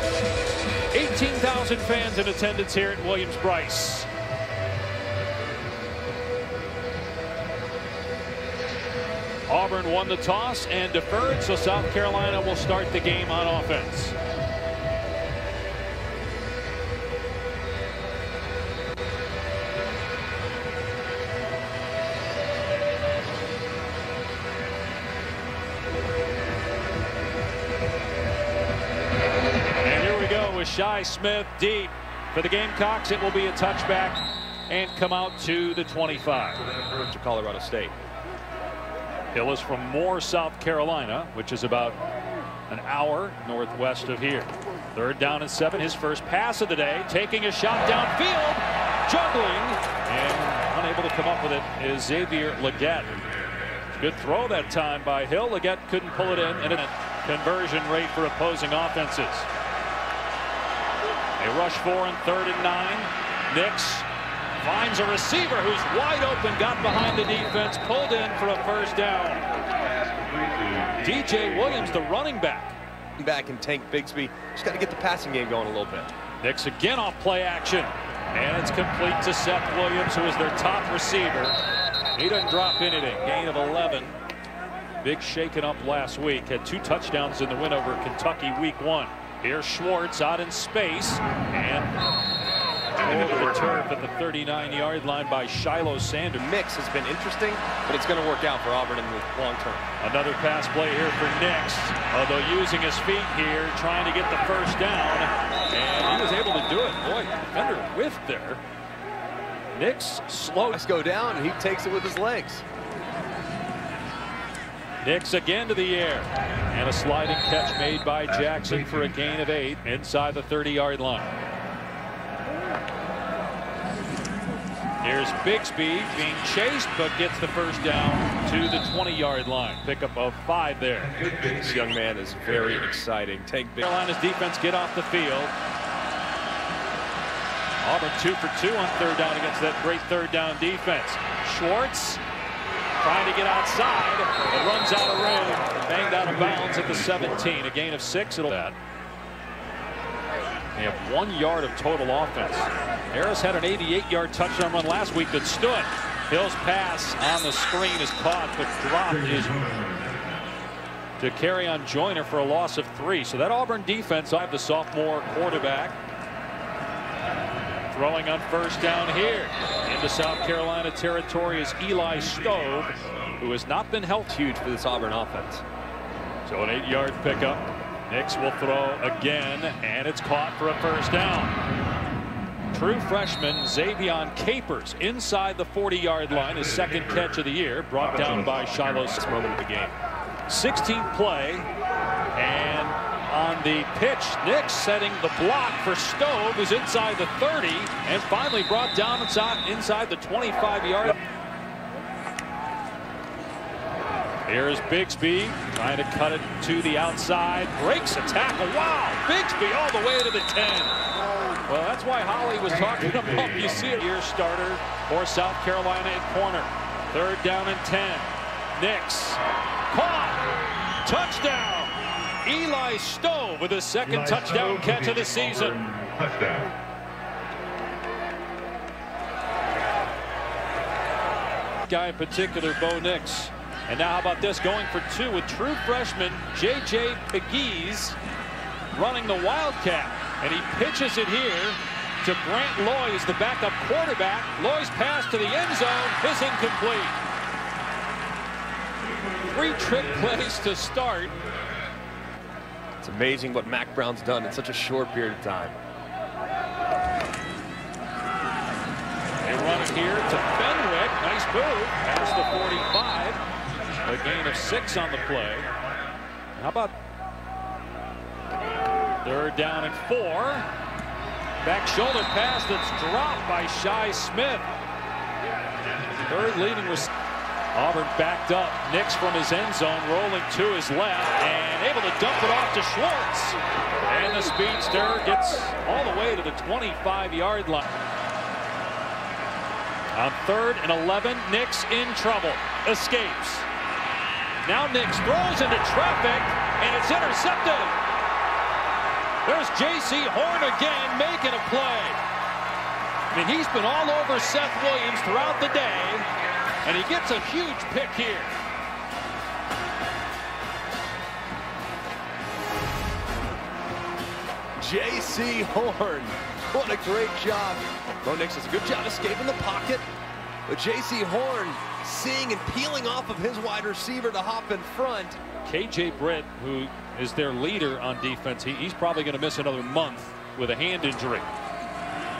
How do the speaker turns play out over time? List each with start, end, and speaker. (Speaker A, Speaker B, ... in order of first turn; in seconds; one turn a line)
Speaker A: 0.9-4.1
Speaker A: 9.5-14.2
Speaker A: 29.8-36.6
Speaker B: 36.9-37.9
Speaker A: 39.3-42.0
Speaker A: 42.7-53.1
Speaker A: 53.9-59.5
Speaker A: 61.4-64.1
Speaker A: 64.6-69.4
Speaker B: 69.8-71.0
Speaker A: 71.0-72.8
Speaker B: 73.2-76.1
Speaker A: 76.4-81.6
Speaker A: 82.2-84.2
Speaker A: 85.0-91.9
Speaker A: 93.0-96.4
Speaker B: 96.4-99.9
Speaker A: 100.0-108.6
Speaker A: 109.7-110.8
Speaker B: 110.7-112.6
Speaker A: 115.0-121.3
Speaker A: 125.0-131.1
Speaker B: 131.2-133.8
Speaker A: 133.8-135.5
Speaker A: 137.8-142.2
Speaker A: 143.0-148.8
Speaker A: 150.7-159.9
Speaker A: 161.2-166.0
Speaker A: 167.9-174.3
Speaker B: 174.3-175.6
Speaker A: 176.4-181.6
Speaker A: 182.7-189.2
Speaker B: 189.1-190.0
Speaker A: 190.5-191.7
Speaker A: 192.3-201.2
Speaker A: 204.4-211.0
Speaker A: 211.7-220.4
Speaker A: 220.9-226.1
Speaker A: 231.8-238.2
Speaker A: 238.9-247.2
Speaker A: 249.5-251.3
Speaker B: 253.0-255.8
Speaker A: 259.4-263.4
Speaker A: 264.0-265.7
Speaker A: 266.5-266.9
Speaker A: 269.2-270.7
Speaker A: 271.6-274.7
Speaker A: 276.2-277.1
Speaker A: 277.7-287.9
Speaker A: 290.1-293.7
Speaker A: 294.6-298.0
Speaker A: 299.4-302.2
Speaker A: 303.3-306.3
Speaker A: 306.8-308.5
Speaker B: 314.8-320.1
Speaker B: 320.7-325.4
Speaker A: 325.6-331.5